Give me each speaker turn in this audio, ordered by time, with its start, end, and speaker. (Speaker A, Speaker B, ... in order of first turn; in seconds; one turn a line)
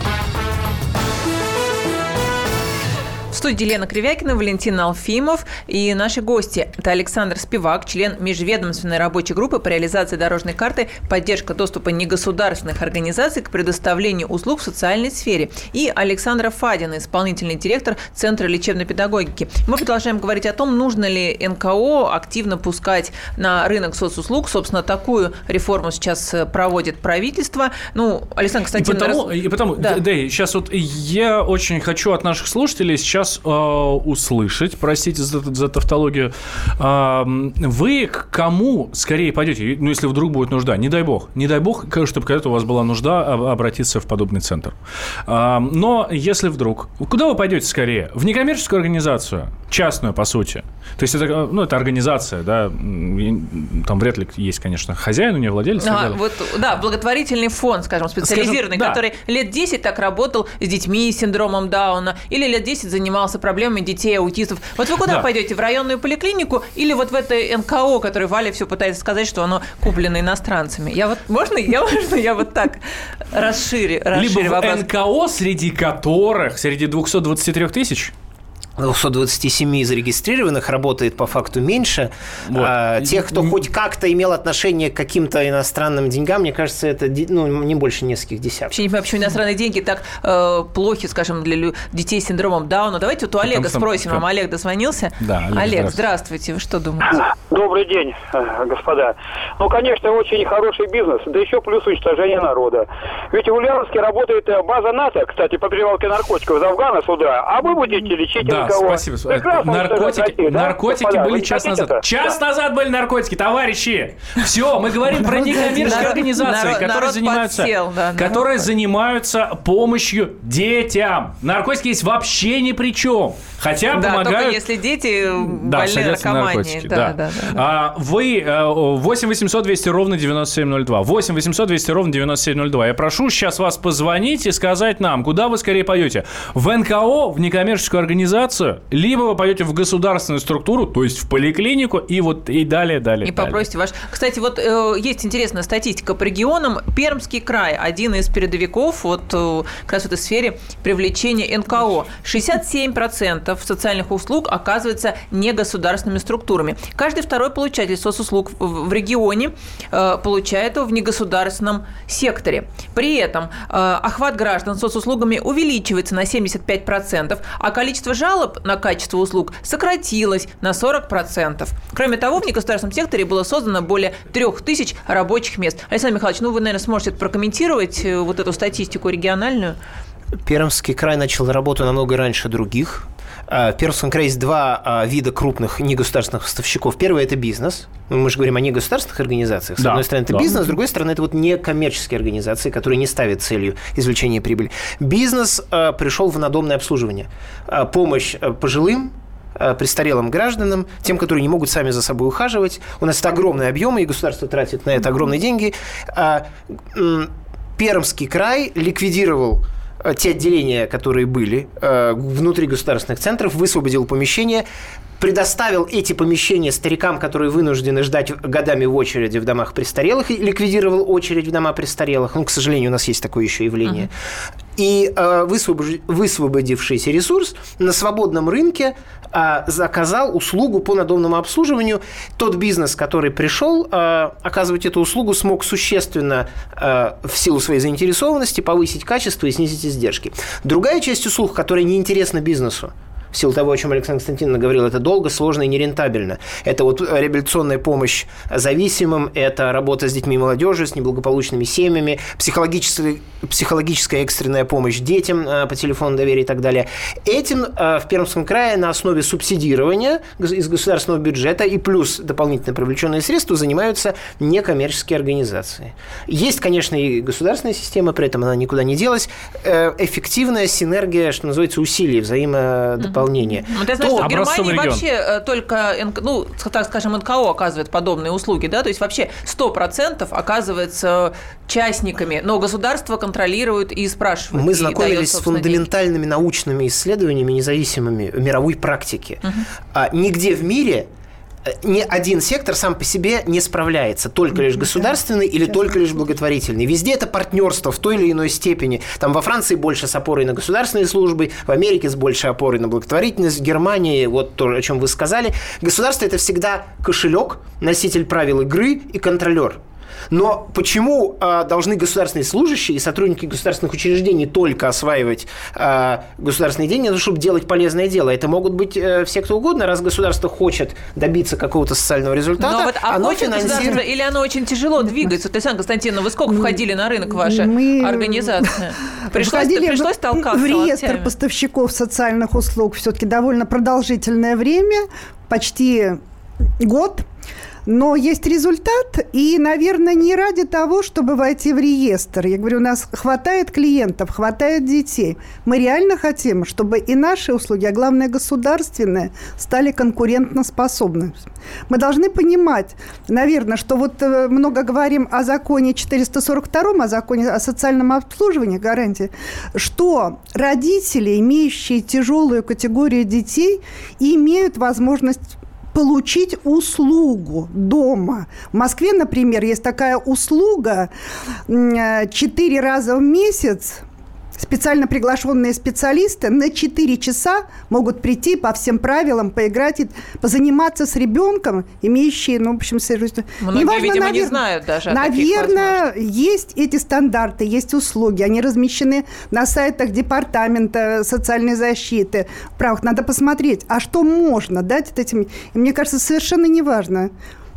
Speaker A: 3.3-30.0
Speaker B: 28.8-56.2
Speaker A: 55.8-74.9
Speaker B: 58.2-59.0
Speaker B: 74.1-78.1
Speaker C: 78.8-88.8
Speaker B: 82.5-83.6
Speaker A: 88.7-97.2
Speaker B: 93.4-94.2
Speaker B: 95.2-96.0
Speaker D: 97.5-112.3
Speaker B: 108.4-124.6
Speaker A: 115.8-118.6
Speaker A: 123.9-127.6
Speaker B: 125.4-143.6
Speaker A: 143.2-179.8
Speaker C: 180.4-214.7
Speaker B: 189.8-190.7
Speaker C: 215.2-224.1
Speaker C: 224.8-274.3
Speaker A: 273.0-285.9
Speaker B: 274.1-275.0
Speaker C: 284.5-291.1
Speaker C: 291.7-324.0
Speaker E: 294.6-295.1
Speaker E: 295.7-296.0
Speaker A: 322.6-331.3
Speaker E: 326.5-336.2
Speaker E: 336.8-337.3
Speaker E: 337.9-371.1
Speaker E: 371.7-374.0
Speaker E: 374.6-397.3
Speaker A: 383.6-386.0